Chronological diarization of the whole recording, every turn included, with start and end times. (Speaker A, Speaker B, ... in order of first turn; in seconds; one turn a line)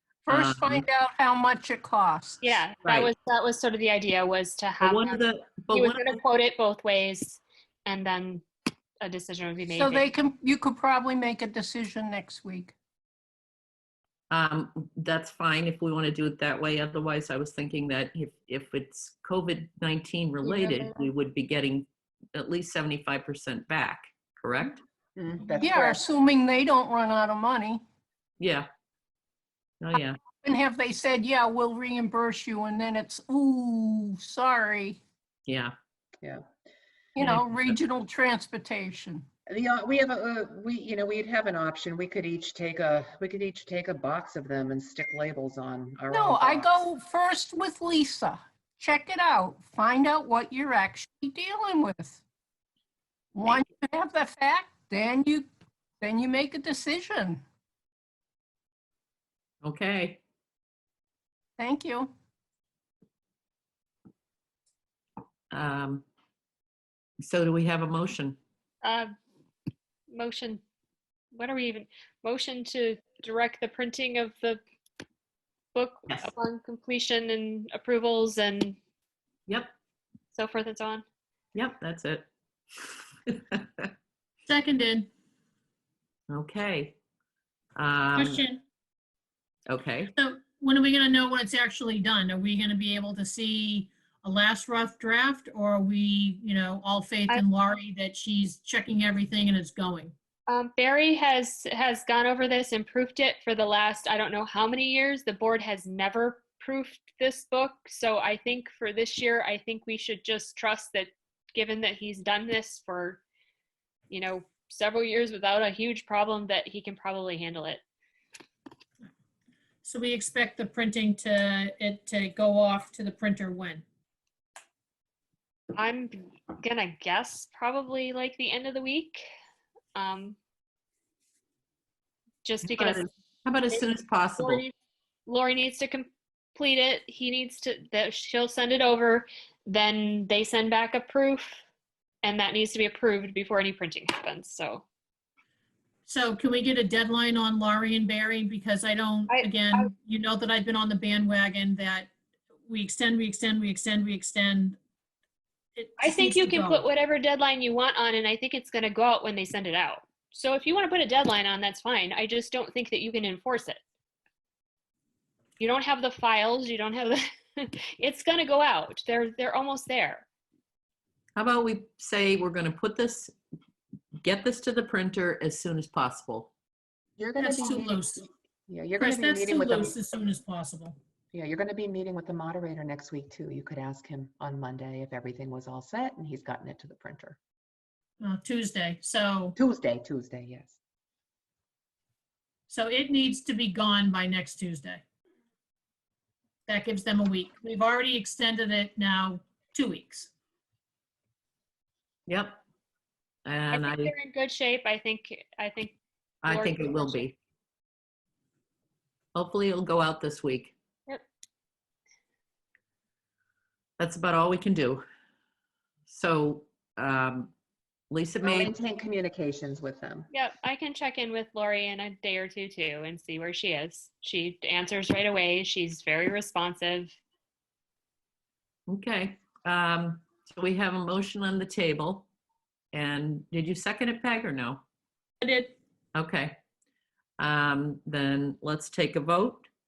Speaker A: 0.2-2.4
Speaker B: 0.3-0.8
Speaker C: 2.4-8.4
Speaker B: 4.8-6.2
Speaker C: 9.0-10.1
Speaker A: 9.7-12.8
Speaker B: 14.3-24.8
Speaker C: 20.4-20.9
Speaker D: 25.2-26.0
Speaker A: 25.6-27.8
Speaker B: 28.4-28.7
Speaker B: 29.8-30.2
Speaker A: 30.4-35.0
Speaker B: 35.5-35.7
Speaker A: 37.1-39.3
Speaker B: 37.2-37.8
Speaker D: 39.5-46.9
Speaker A: 46.1-52.2
Speaker A: 53.3-55.5
Speaker A: 56.0-57.4
Speaker B: 59.6-60.2
Speaker A: 61.6-62.1
Speaker B: 65.5-66.0
Speaker B: 67.2-68.4
Speaker C: 68.8-69.1
Speaker C: 70.1-70.6
Speaker C: 71.3-74.6
Speaker C: 75.8-78.8
Speaker B: 79.5-79.7
Speaker C: 80.3-81.0
Speaker B: 81.5-82.3
Speaker B: 83.3-83.9
Speaker E: 84.5-85.1
Speaker B: 86.3-87.0
Speaker B: 87.8-88.4
Speaker E: 88.2-88.6
Speaker B: 89.7-90.1
Speaker E: 90.2-100.1
Speaker C: 100.5-113.2
Speaker C: 114.1-117.8
Speaker E: 119.8-123.8
Speaker C: 125.8-129.2
Speaker C: 129.9-130.4
Speaker C: 132.4-133.1
Speaker B: 132.6-134.6
Speaker C: 134.4-134.7
Speaker C: 135.3-141.6
Speaker C: 142.2-144.8
Speaker E: 146.1-152.1
Speaker C: 149.3-149.9
Speaker E: 152.7-154.8
Speaker E: 155.8-156.8
Speaker C: 156.0-163.8
Speaker C: 165.6-170.2
Speaker B: 171.4-173.3
Speaker B: 174.2-176.5
Speaker D: 177.2-178.1
Speaker E: 177.4-178.3
Speaker D: 178.7-179.9
Speaker E: 179.0-181.0
Speaker D: 181.3-187.4
Speaker E: 188.2-189.6
Speaker D: 189.6-190.8
Speaker E: 192.7-195.0
Speaker E: 196.7-200.3
Speaker B: 202.3-202.6
Speaker B: 203.5-204.1
Speaker C: 203.7-207.2
Speaker B: 206.4-207.4
Speaker B: 209.3-210.8
Speaker B: 214.0-215.1
Speaker B: 216.1-217.5
Speaker B: 218.1-218.7
Speaker D: 218.4-220.3
Speaker C: 220.3-227.2
Speaker B: 228.9-232.3
Speaker B: 232.9-234.8
Speaker E: 235.4-235.8
Speaker B: 236.2-236.6
Speaker B: 237.4-239.7